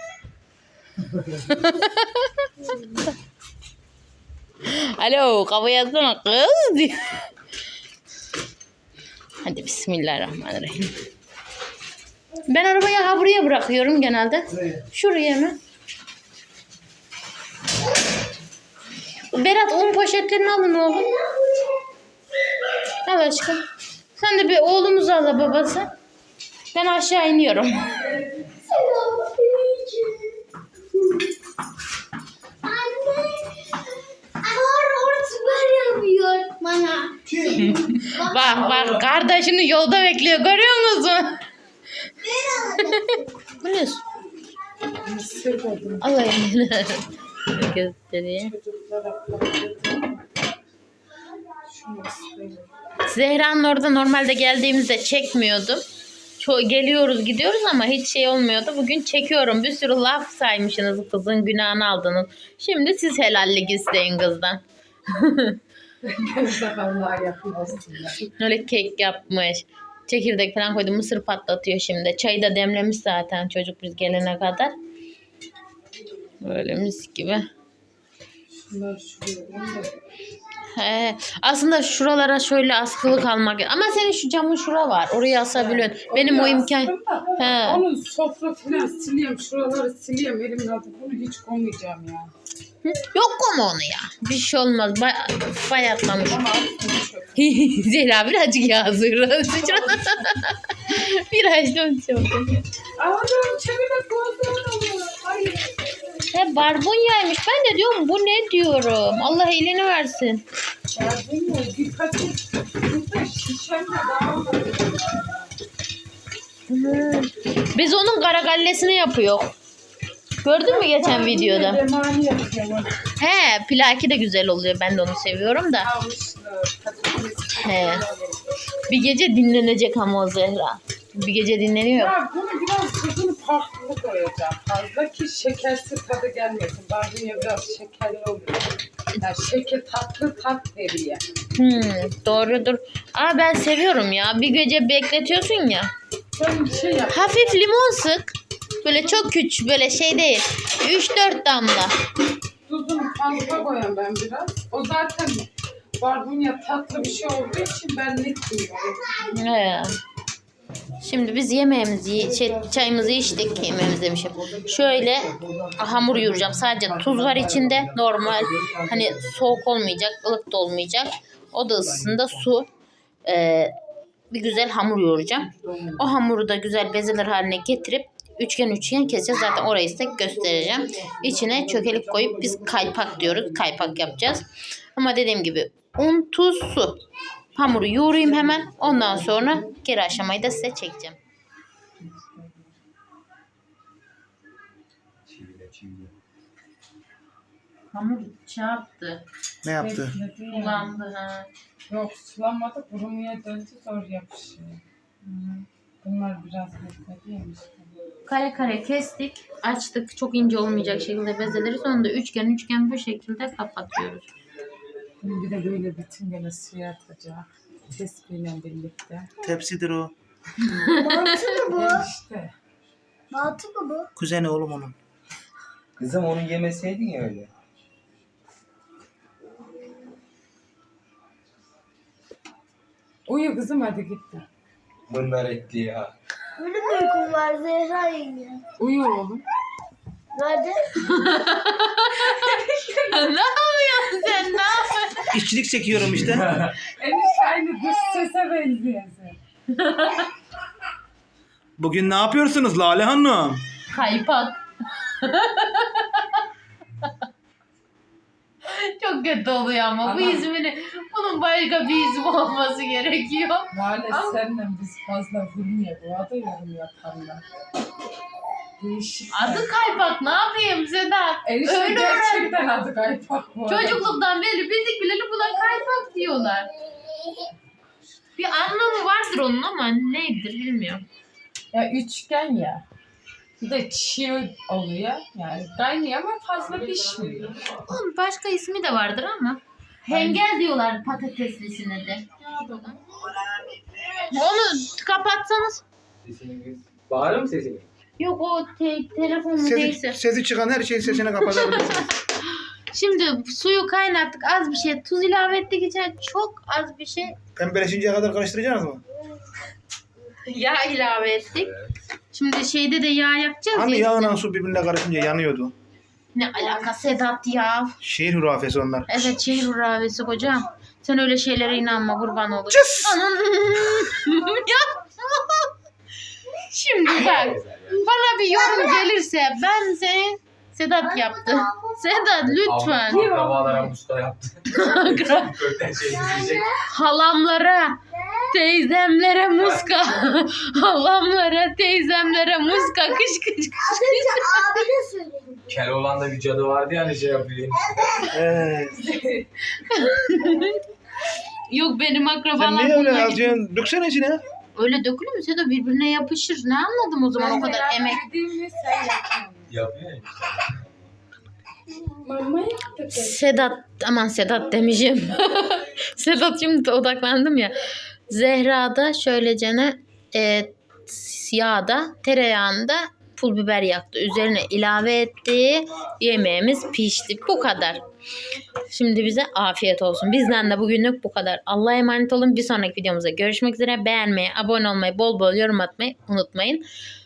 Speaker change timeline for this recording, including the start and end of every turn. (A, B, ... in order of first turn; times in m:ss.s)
0:01.5-0:02.5 A
0:04.6-0:07.2 A
0:09.4-0:10.9 A
0:12.5-0:15.6 A
0:19.3-0:21.1 A
0:20.9-0:21.7 B
0:23.0-0:23.6 A
0:24.2-0:25.9 A
0:26.7-0:28.1 A
0:28.4-0:30.4 B
0:32.6-0:33.6 B
0:34.4-0:39.0 B
0:37.6-0:41.4 A
0:42.2-0:43.4 B
0:43.6-0:44.0 A
0:45.0-0:46.0 C
0:46.0-0:48.5 A
0:48.4-0:50.2 C
0:51.7-0:52.7 C
0:53.0-0:55.8 A
0:56.4-1:05.6 A
1:06.0-1:08.3 C
1:08.4-1:14.8 A
1:16.4-1:17.5 A
1:18.7-1:19.9 C
1:20.7-1:27.8 A
1:25.6-1:32.3 C
1:32.8-1:36.4 A
1:36.2-1:37.4 C
1:37.4-1:42.6 A
1:39.6-1:40.4 C
1:43.0-1:45.9 C
1:46.3-1:50.4 A
1:50.9-1:55.5 C
1:56.7-1:59.5 A
2:00.4-2:01.8 A
2:00.6-2:03.0 C
2:03.2-2:05.9 A
2:05.8-2:08.4 C
2:07.6-2:08.0 A
2:08.9-2:12.1 A
2:12.0-2:21.2 C
2:21.6-2:25.9 A
2:26.3-2:27.6 C
2:27.1-2:31.9 A
2:32.7-2:39.3 C
2:39.3-2:40.0 A
2:41.0-2:52.7 A
2:42.2-2:43.5 D
2:44.3-2:49.4 D
2:51.8-2:52.4 D
2:53.2-2:53.7 A
2:54.3-3:07.0 A
2:55.6-2:56.0 D
3:00.5-3:04.2 D
3:07.5-3:11.2 A
3:12.0-3:12.7 C
3:15.2-3:16.1 E
3:17.9-3:19.2 A
3:19.6-3:20.2 D
3:19.8-3:20.9 C
3:20.5-3:21.5 A
3:21.9-3:24.8 C
3:25.2-3:25.6 A
3:26.0-3:28.0 C
3:28.3-3:34.3 A
3:35.2-3:39.3 C
3:39.4-3:40.1 D
3:40.7-3:41.2 A
3:40.8-3:42.1 B
3:41.7-3:42.5 C
3:43.3-3:44.1 B
3:44.2-3:45.0 D
3:46.0-3:47.5 E
3:53.3-3:54.5 C
3:55.1-3:56.1 E
3:56.6-3:58.6 B
3:58.8-3:59.4 C
4:00.3-4:01.1 B
4:01.0-4:05.3 A
4:02.4-4:03.2 C
4:05.3-4:06.5 D
4:06.0-4:06.8 E
4:06.8-4:09.4 C
4:09.7-4:10.3 A
4:11.8-4:13.6 D
4:13.9-4:16.2 A
4:18.6-4:24.4 A
4:20.0-4:20.5 C
4:23.7-4:27.4 C
4:28.8-4:29.7 C
4:29.3-4:32.5 A
4:31.4-4:34.2 C
4:33.7-4:36.7 A
4:38.4-4:41.1 A
4:41.7-4:42.8 C
4:43.6-4:47.6 C
4:46.8-4:47.8 E
4:47.8-4:52.3 A
4:50.1-4:50.4 C
4:52.4-4:53.0 C
4:54.3-4:55.8 A
4:56.2-4:57.9 E
4:58.2-5:00.2 A
4:59.6-5:02.1 D
5:01.0-5:07.4 A
5:07.6-5:09.0 D
5:10.4-5:11.7 A
5:11.6-5:11.9 E
5:12.3-5:14.3 A
5:13.7-5:15.7 D
5:16.3-5:18.0 A
5:18.0-5:19.2 D
5:19.1-5:25.7 A
5:22.7-5:23.2 D
5:26.7-5:33.3 A
5:27.2-5:28.0 E
5:28.5-5:29.0 B
5:31.0-5:32.4 B
5:32.5-5:36.7 E
5:33.1-5:34.0 C
5:34.7-5:35.6 A
5:36.0-5:36.7 B
5:36.8-5:38.0 A
5:38.1-5:38.5 B
5:38.5-5:44.6 A
5:39.6-5:39.9 E
5:43.8-5:45.8 B
5:45.7-5:48.3 E
5:47.8-5:48.4 B
5:48.3-5:49.0 D
5:49.0-5:49.5 C
5:49.8-5:50.8 A
5:51.7-5:53.6 A
5:52.5-5:54.4 D
5:54.8-5:58.2 A
5:57.3-5:59.7 C
5:59.7-6:01.1 E
6:02.2-6:03.5 C
6:03.1-6:07.8 A
6:08.3-6:18.0 A
6:18.9-6:26.8 A